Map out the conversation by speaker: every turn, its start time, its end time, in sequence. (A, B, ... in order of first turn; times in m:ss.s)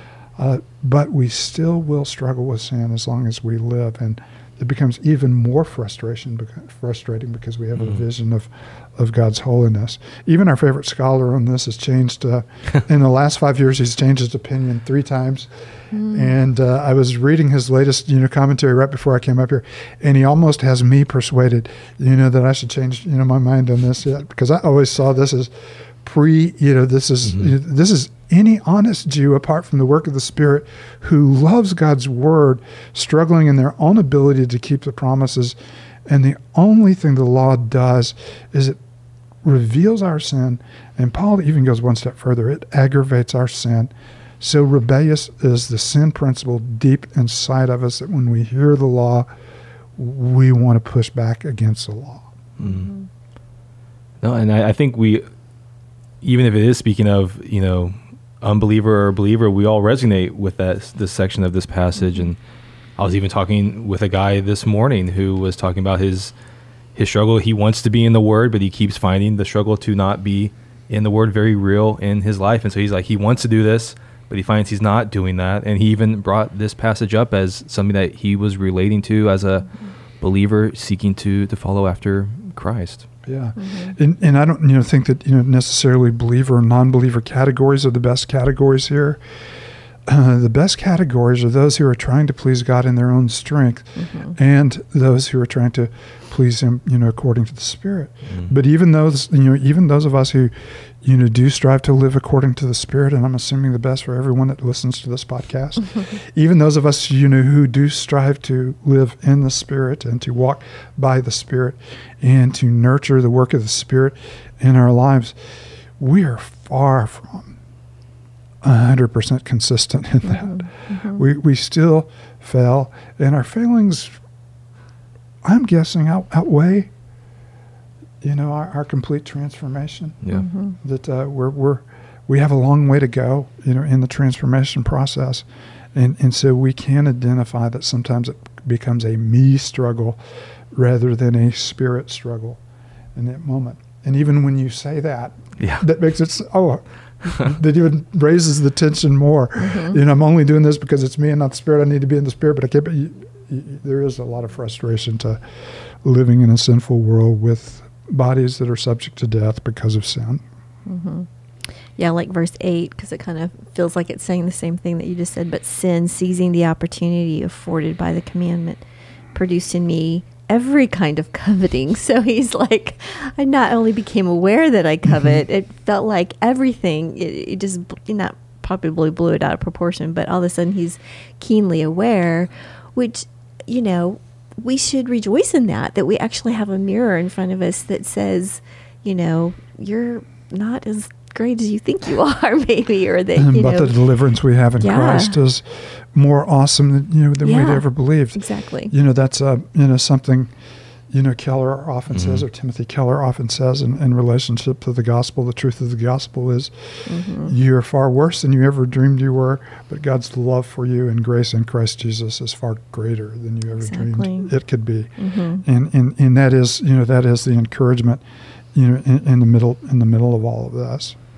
0:00.4-0:35.5 A
0:15.9-0:16.3 B
0:36.1-0:38.8 A
0:39.4-0:49.3 A
0:50.0-0:52.3 A
0:52.6-0:52.9 C
0:52.6-0:53.1 B
0:54.2-0:55.2 C
0:56.2-1:02.4 C
1:03.0-1:06.3 C
1:06.9-1:19.7 C
1:20.2-1:23.1 C
1:23.2-1:29.2 A
1:23.6-1:24.0 B
1:30.1-1:55.4 A
1:33.9-1:34.3 B
1:56.0-1:57.6 A
1:58.6-2:04.2 A
2:00.2-2:01.2 B
2:05.4-2:06.9 A
2:08.2-2:10.2 A
2:10.3-2:10.8 B
2:10.8-2:20.2 A
2:20.7-2:22.6 A
2:23.2-2:35.4 A
2:29.6-2:30.0 B
2:36.0-2:40.4 A
2:40.8-2:41.3 B
2:42.0-2:48.8 B
2:49.3-3:14.0 B
2:55.0-2:55.4 A
3:13.4-3:20.5 A
3:14.8-3:15.4 B
3:17.4-3:18.9 B
3:21.1-3:38.2 A
3:22.1-3:22.4 C
3:27.0-3:27.5 B
3:33.8-3:34.5 B
3:35.2-3:35.6 B
3:38.7-3:41.2 A